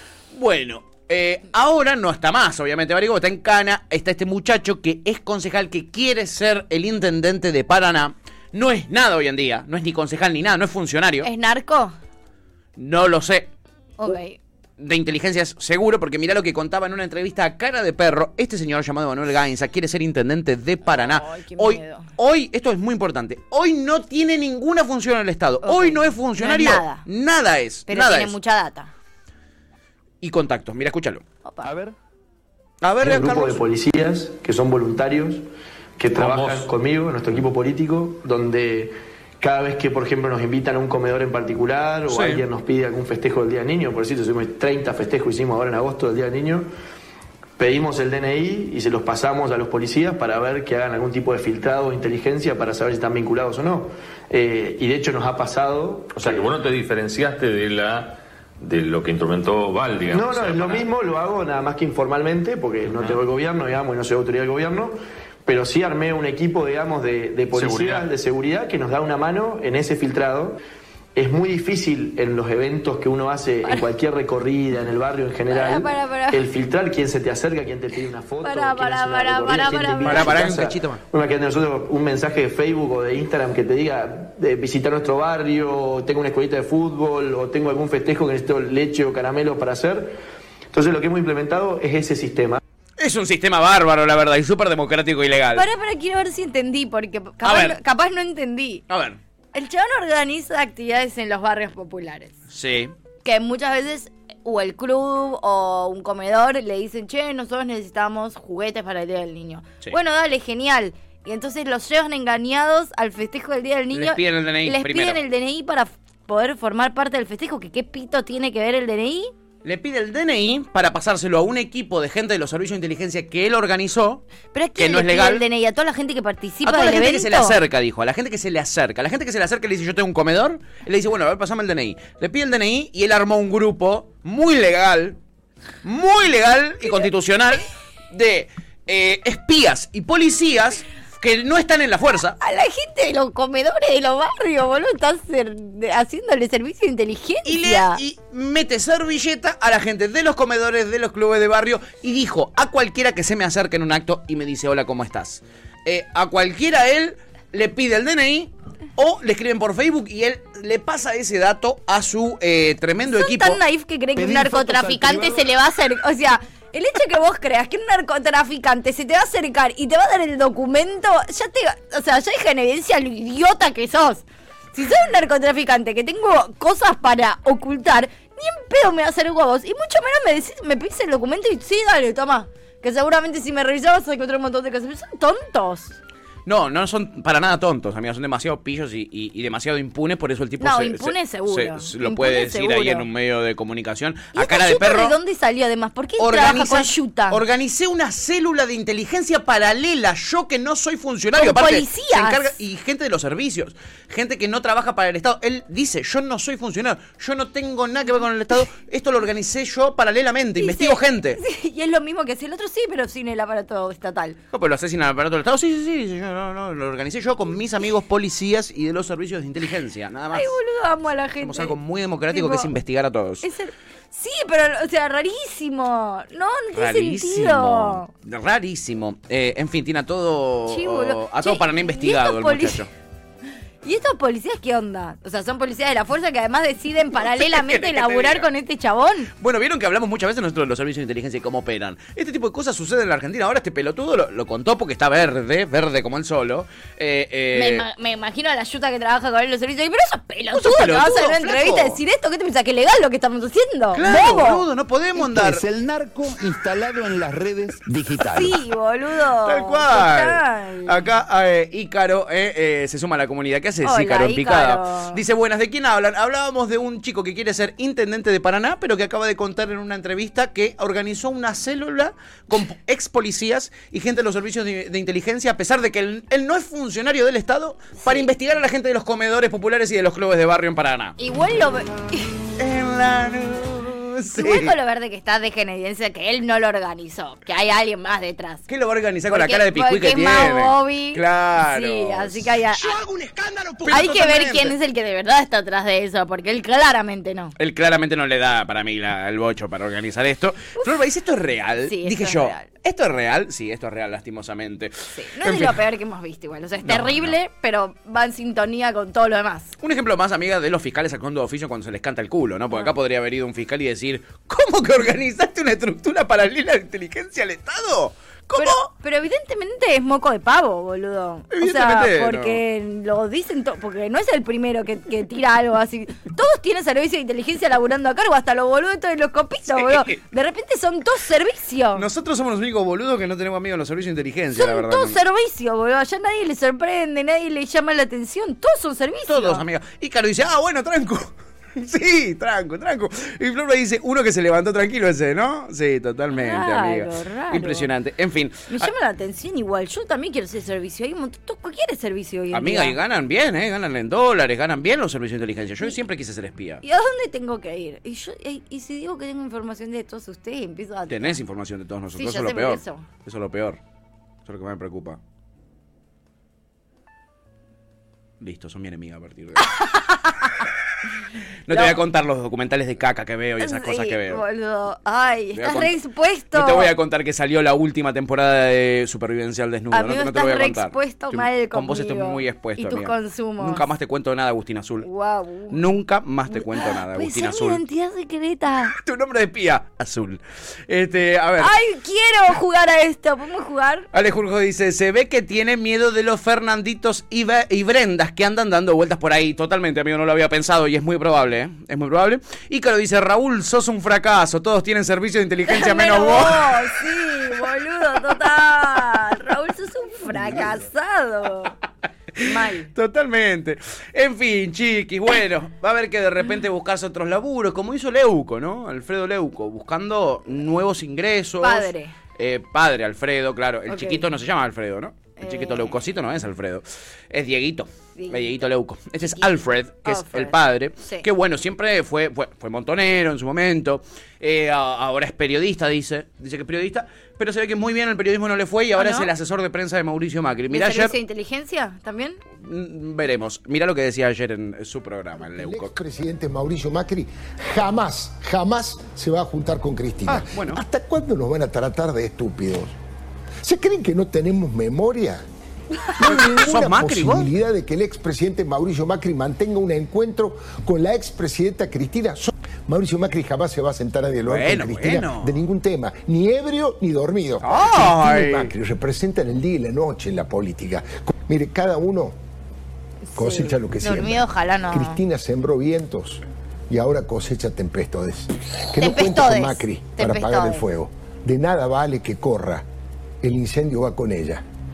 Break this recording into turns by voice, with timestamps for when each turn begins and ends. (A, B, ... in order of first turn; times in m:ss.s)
0:00.3-0:11.3 A
0:11.2-0:11.9 B
0:12.8-0:13.5 A
0:14.0-0:14.4 B
0:14.8-0:28.3 A
0:20.8-0:22.1 B
0:25.6-0:27.0 B
0:27.9-0:28.9 B
0:30.2-0:31.2 A
0:31.4-0:31.7 B
0:31.6-0:31.9 C
0:32.8-0:33.6 A
0:33.0-0:35.4 D
0:36.0-0:46.7 D
0:36.2-0:36.6 E
0:42.1-0:42.4 A
0:47.6-0:56.5 D
0:56.1-1:00.8 E
1:00.1-1:04.9 D
1:02.9-1:03.2 E
1:05.4-1:10.6 D
1:07.5-1:08.1 E
1:11.1-1:30.2 D
1:15.5-1:16.4 B
1:18.4-1:20.4 B
1:20.0-1:21.0 A
1:30.7-1:32.6 D
1:33.0-1:35.6 A
1:35.5-1:38.8 B
1:37.4-1:37.8 A
1:38.9-1:39.2 A
1:39.5-1:42.4 B
1:42.5-1:42.9 A
1:43.2-1:59.3 B
1:53.9-1:55.2 A
1:59.6-2:04.2 A
2:04.5-2:07.6 B
2:04.8-2:05.4 A
2:06.6-2:15.2 A
2:15.8-2:22.4 A
2:22.4-2:28.0 B
2:27.4-2:43.6 A
2:43.1-3:06.0 B
2:44.2-2:45.4 C
3:06.4-3:15.2 A
3:10.6-3:13.1 B
3:14.3-3:17.4 B
3:16.2-3:31.4 A
3:21.4-3:22.5 B
3:30.6-3:34.4 B
3:34.5-3:40.6 A
3:40.3-3:41.7 B
3:41.4-3:43.4 A
3:42.3-3:42.7 B
3:43.4-3:48.1 B
3:46.7-3:52.9 A
3:50.7-3:52.8 B
3:53.8-3:59.3 B
3:57.2-3:58.5 A
3:59.4-4:07.8 A
4:07.5-4:14.6 B
4:10.5-4:12.0 A
4:13.9-4:15.6 A
4:15.2-4:18.6 C
4:18.2-4:21.0 B
4:19.4-4:41.2 A
4:23.8-4:25.2 B
4:38.0-4:38.3 B
4:41.2-4:42.4 B
4:42.6-4:44.7 A
4:44.3-4:48.6 B
4:48.7-4:54.7 A
4:49.3-4:53.0 B
4:53.9-4:57.5 B
4:57.6-5:05.8 A
5:01.8-5:02.7 B
5:05.1-5:09.7 B
5:06.8-5:07.4 A
5:09.8-5:18.9 A
5:18.6-5:32.0 B
5:21.5-5:22.6 A
5:29.7-5:30.2 A
5:32.0-5:35.2 A
5:34.6-5:39.6 B
5:39.3-5:48.9 A
5:46.3-5:47.9 B
5:48.7-5:53.0 B
5:52.5-5:56.8 A
5:56.8-6:01.4 B
6:01.1-6:03.8 A
6:02.2-6:03.0 B
6:04.4-6:05.2 A
6:08.4-6:09.7 A
6:09.6-6:10.6 B
6:11.7-6:14.4 A
6:11.7-6:12.0 B
6:13.6-6:16.9 B
6:15.5-6:15.9 A
6:16.5-6:25.1 A
6:19.9-6:23.8 B
6:25.0-6:25.8 B
6:25.7-6:27.8 A
6:26.5-6:28.9 B
6:28.9-6:31.7 A
6:31.6-6:34.1 B
6:34.1-6:46.9 A
6:45.7-6:51.7 B
6:52.4-6:52.9 B
6:52.4-7:21.1 A
7:01.6-7:02.1 B
7:03.9-7:04.2 B
7:05.4-7:06.0 B
7:08.2-7:08.6 B
7:09.2-7:11.2 B
7:19.0-7:19.3 B
7:20.7-7:22.4 B
7:22.6-7:25.9 A
7:25.4-7:32.9 F
7:30.3-7:30.8 A
7:33.6-7:35.4 F
7:36.2-7:52.4 F
7:36.2-7:37.5 A
7:44.4-7:45.6 A
7:47.6-7:48.7 A
7:53.3-7:55.2 B
7:53.4-8:02.8 F
7:59.0-8:00.8 B
8:03.4-8:04.6 F